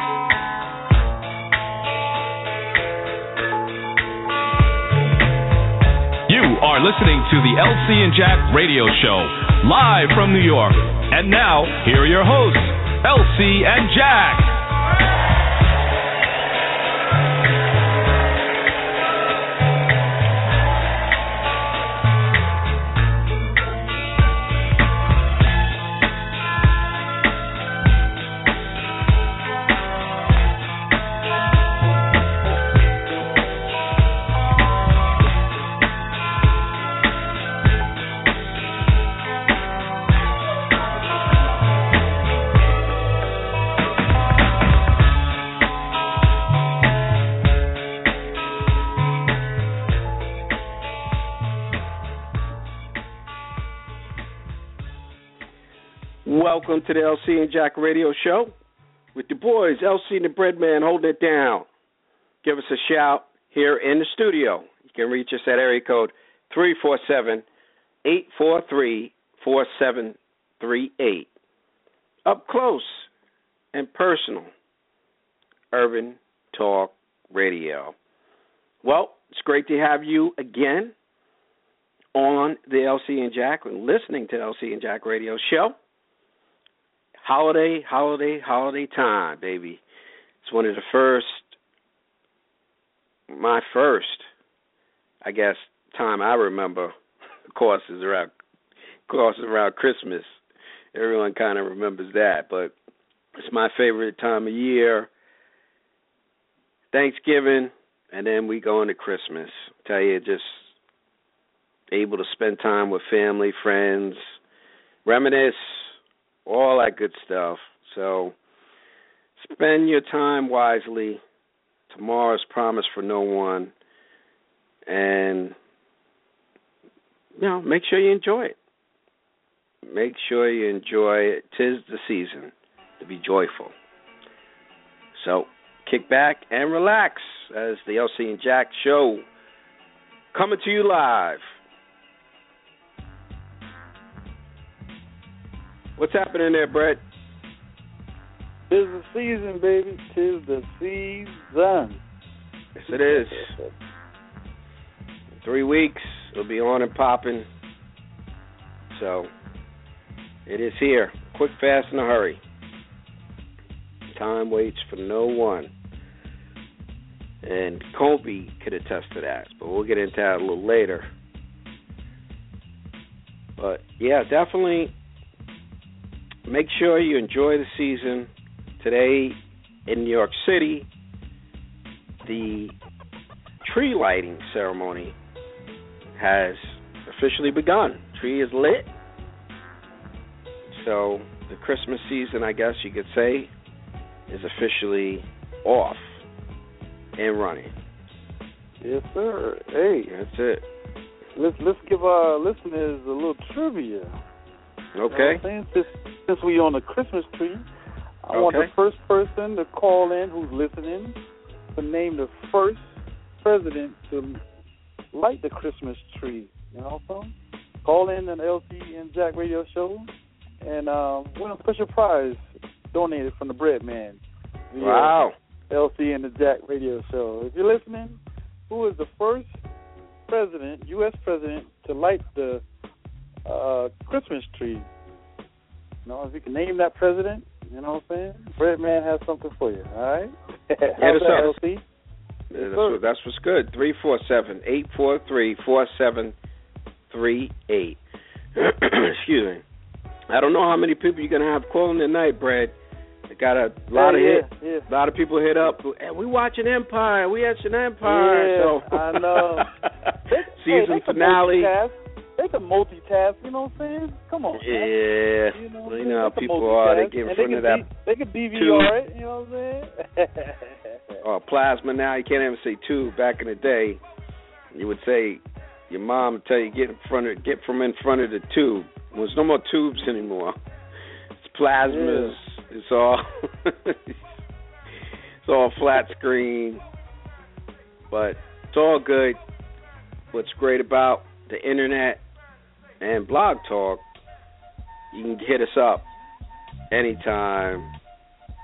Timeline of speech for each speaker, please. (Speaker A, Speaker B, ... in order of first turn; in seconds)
Speaker A: 6.3-14.5
Speaker B: 56.2-58.5, 59.1-61.7, 62.4-67.4, 68.0-71.3, 72.2-73.1, 73.7-74.5, 75.7-77.9, 78.8-80.9, 82.1-85.8, 87.2-89.8, 90.4-91.5, 93.3-94.3, 95.2-96.9, 97.5-98.3, 99.1-100.4, 100.9-102.7, 103.3-105.1, 106.9-110.7, 111.9-114.3, 115.0-118.3, 119.4-121.2, 121.9-123.7, 124.9-125.5, 127.4-128.6, 129.8-133.7, 135.1-139.2, 140.3-141.4, 146.0-147.0, 152.7-153.5, 155.4-157.5, 158.9-159.3, 160.4-162.4, 164.1-165.7, 167.4-171.1, 173.6-174.9, 176.5-180.9, 182.2-182.8, 183.6-185.1, 186.1-188.9, 190.7-193.5, 194.3-196.2, 197.2-197.7, 200.1-200.6, 204.9-205.4, 208.3-208.7, 224.8-225.3, 241.0-241.6, 242.5-246.3, 247.1-248.0, 248.6-249.6, 250.3-252.8, 253.3-261.7, 264.5-267.9, 268.5-268.9, 271.2-274.0, 274.7-280.6, 281.4-284.3, 285.4-286.8, 288.1-289.4, 290.3-292.2, 293.0-294.0, 295.1-296.1, 296.9-297.9
Speaker C: 148.7-152.0, 152.9-153.7, 198.8-200.1, 201.3-204.1, 205.1-207.6, 208.2-211.2, 211.7-214.4, 215.1-217.3, 217.8-220.1, 220.6-224.2, 224.7-225.2, 225.7-229.5, 230.3-232.6, 233.4-234.9, 236.1-241.8, 242.5-243.0, 253.9-254.9, 258.0-259.7, 260.3-264.9, 265.5-271.2, 281.8-282.4